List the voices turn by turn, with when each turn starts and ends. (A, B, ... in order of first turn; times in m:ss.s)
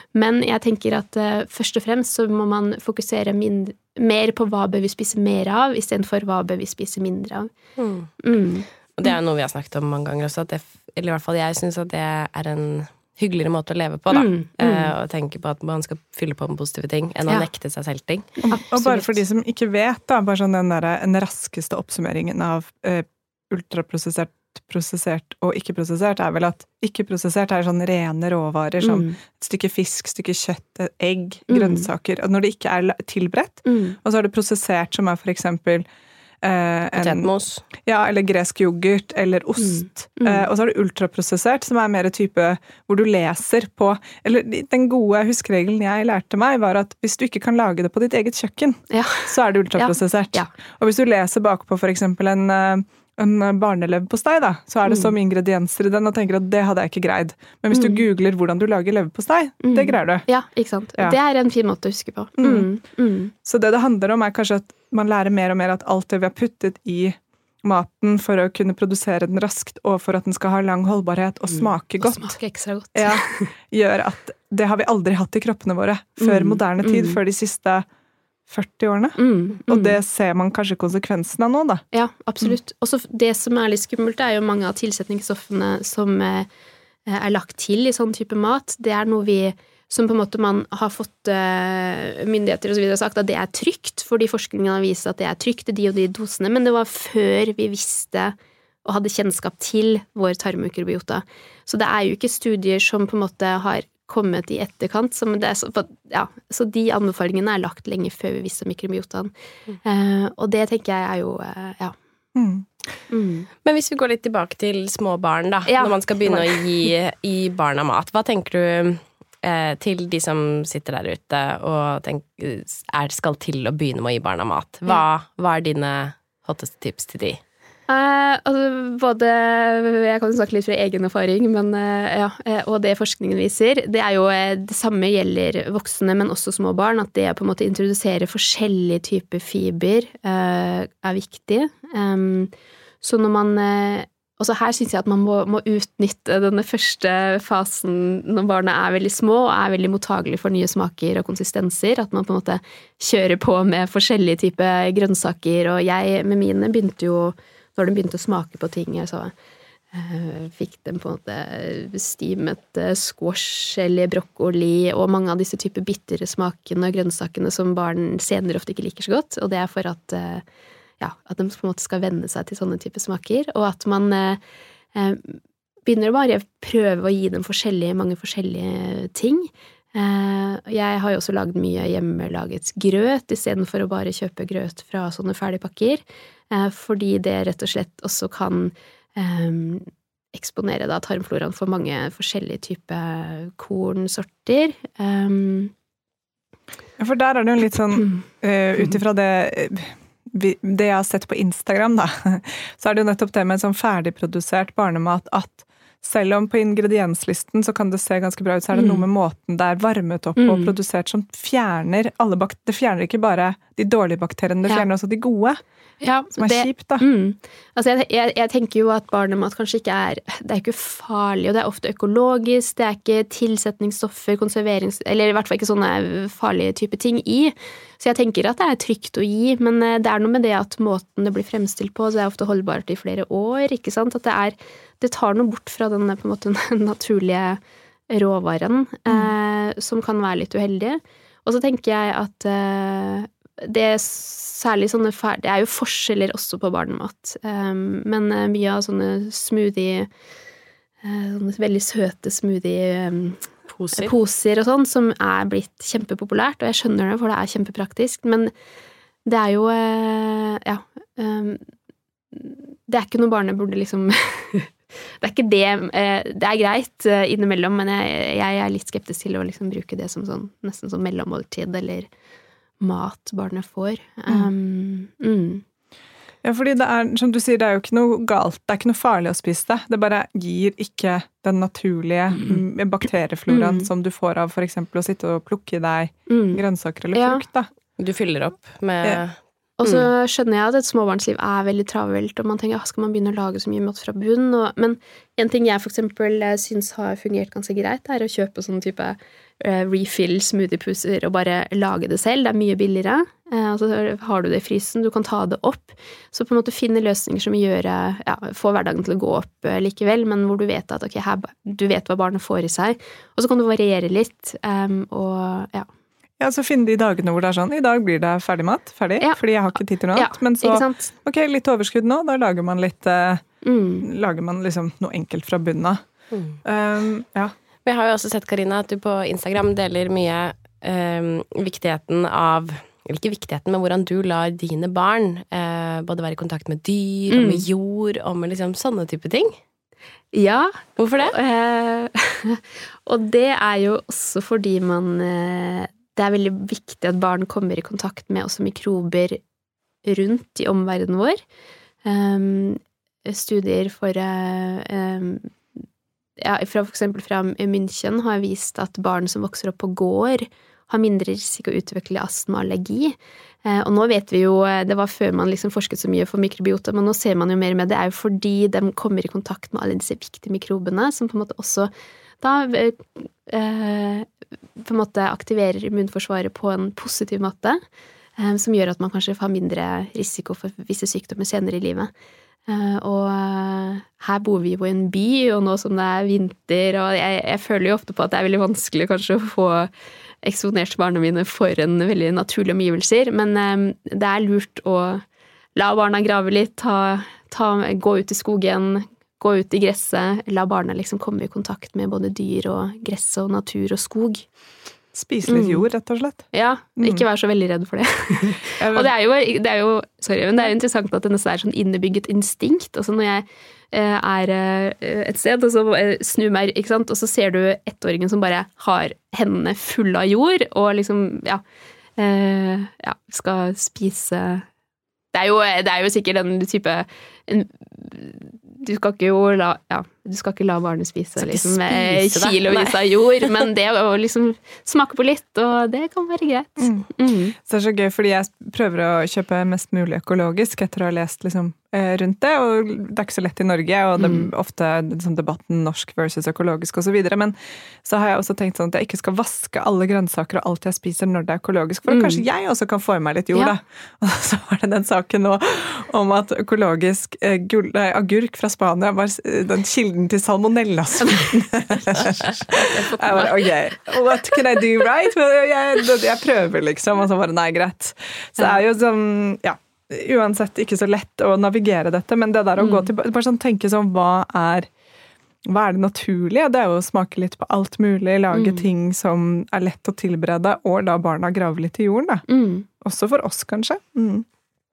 0:00.1-0:07.5 A
0:07.8-0:08.1 B
0:08.2-0:08.6 A
0:09.0-0:18.4 B
0:14.1-0:14.9 A
0:18.4-0:35.8 C
0:18.5-0:19.2 A
0:28.8-0:29.2 A
0:31.5-0:31.9 A
0:33.6-0:34.0 A
0:36.4-0:37.3 C
0:37.0-0:37.6 B
0:37.8-1:00.3 C
0:39.6-0:40.4 A
0:48.9-0:50.5 A
0:54.8-0:55.1 A
0:57.7-0:58.0 A
0:59.6-1:03.3 A
1:02.4-1:02.7 C
1:03.4-1:12.4 C
1:11.5-1:13.5 A
1:12.9-1:17.8 C
1:16.2-1:17.2 A
1:18.5-1:21.8 C
1:19.2-1:20.0 A
1:21.9-1:26.5 A
1:27.0-1:49.3 A
1:49.8-1:52.0 A
1:52.3-1:52.8 C
1:53.1-1:53.5 A
1:53.6-2:07.4 B
1:55.7-1:56.9 A
2:07.9-2:39.3 A
2:39.9-2:50.4 A
2:51.0-2:54.4 A
2:54.9-3:15.7 A
3:17.0-3:35.6 C
3:18.0-3:18.2 A
3:28.7-3:29.0 A
3:30.4-3:30.7 A
3:36.0-4:10.1 A
3:36.4-3:37.0 C
4:11.0-4:18.5 A
4:13.7-4:14.1 B
4:19.2-4:21.6 A
4:22.3-4:32.1 A
4:32.8-4:35.6 A
4:36.4-4:47.7 C
4:43.5-4:43.9 A
4:46.3-4:46.6 A
4:47.1-4:47.4 A
4:48.0-4:50.0 B
4:49.8-5:15.9 A
5:16.4-5:23.4 C
5:20.1-5:21.1 A
5:23.6-5:24.0 A
5:24.0-5:26.0 C
5:26.3-5:26.6 B
5:26.6-5:27.5 C
5:27.8-5:39.6 B
5:37.3-5:37.6 A
5:40.3-5:49.4 A
5:41.0-5:41.3 B
5:50.0-5:51.4 A
5:52.0-5:55.5 A
5:56.4-6:14.3 A
6:14.8-6:17.8 A
6:18.4-6:22.1 A
6:22.7-6:29.9 A
6:30.4-6:35.2 A
6:35.7-6:44.4 A
6:45.1-6:47.2 C
6:45.4-6:45.8 A
6:46.5-7:01.6 A
6:48.8-6:49.1 C
7:02.2-7:04.6 A
7:05.3-7:17.5 A
7:11.4-7:13.0 B
7:16.8-7:17.1 C
7:17.6-7:54.9 C
7:24.2-7:24.5 A
7:32.1-7:32.4 A
7:42.7-7:43.5 A
7:52.8-7:53.1 A
7:55.7-8:02.4 C
7:58.5-7:58.8 A
8:02.5-8:02.8 A
8:03.0-8:04.4 C